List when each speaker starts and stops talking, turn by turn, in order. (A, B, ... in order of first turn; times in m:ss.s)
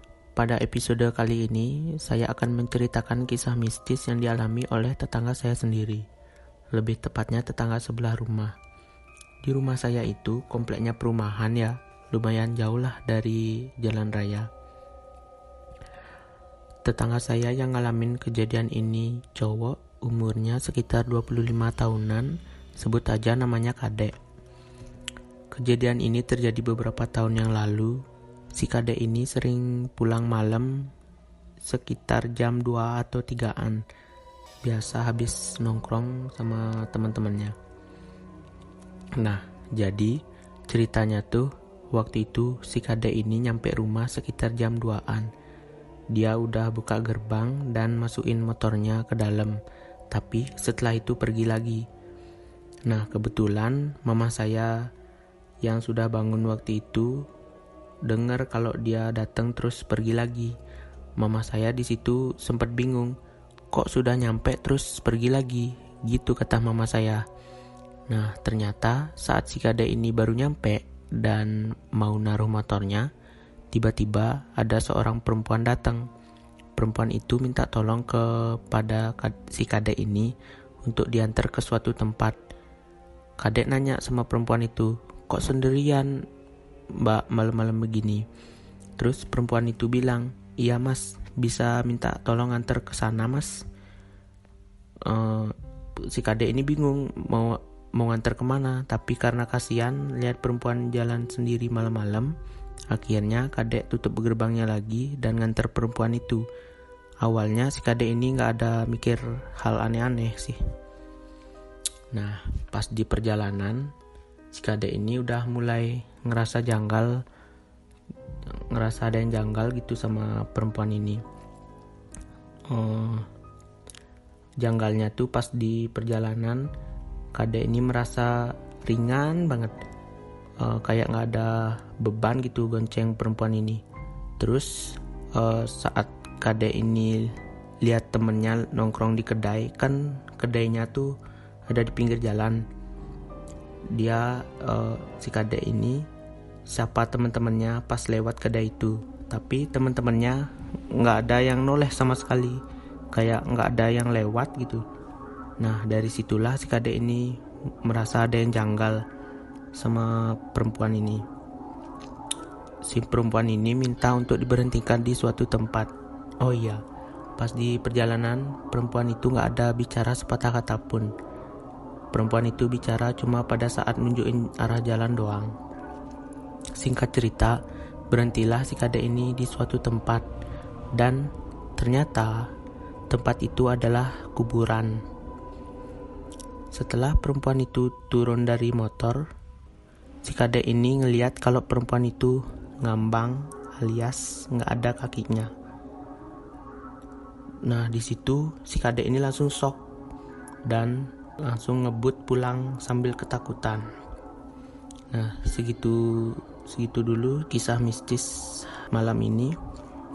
0:00.4-0:06.0 A
0:06.7-0:08.6 A
0:09.4-0:14.5 A
0:16.8-0:24.2 A
0:25.5-0:28.0 A
0:28.5-0:30.9 A
0:31.6-0:33.8 A
0:34.6-0:37.6 A
0:39.2-0:45.3 A
0:46.1-0:49.6 A
0:50.1-0:51.8 A
0:52.9-0:54.9 A
0:55.6-0:57.3 A
0:58.0-1:00.6 A
1:01.2-1:03.1 A
1:03.7-1:07.2 A
1:08.1-1:13.1 A
1:13.7-1:16.1 A
1:16.8-1:22.4 A
1:23.4-1:26.2 A
1:27.0-1:28.2 A
1:29.0-1:33.6 A
1:35.0-1:42.3 A
1:42.9-1:46.5 A
1:47.2-1:50.6 A
1:52.1-1:53.9 A
1:54.5-1:57.2 A
1:58.5-2:01.2 A
2:02.7-2:03.3 A
2:04.6-2:06.7 A
2:07.3-2:09.8 A
2:10.6-2:13.8 A
2:14.4-2:21.2 A
2:21.7-2:22.6 A
2:23.9-2:26.1 A
2:26.7-2:32.6 A
2:33.1-2:34.8 A
2:35.6-2:39.0 A
2:39.8-2:41.2 A
2:42.9-2:45.9 A
2:46.4-2:46.8 A
2:47.4-2:51.1 A
2:52.1-2:55.5 A
2:56.8-2:57.6 A
2:58.1-3:00.3 A
3:00.9-3:02.5 A
3:03.1-3:05.0 A
3:06.7-3:09.2 A
3:10.2-3:15.5 A
3:17.6-3:19.8 A
3:20.7-3:23.9 A
3:25.1-3:29.6 A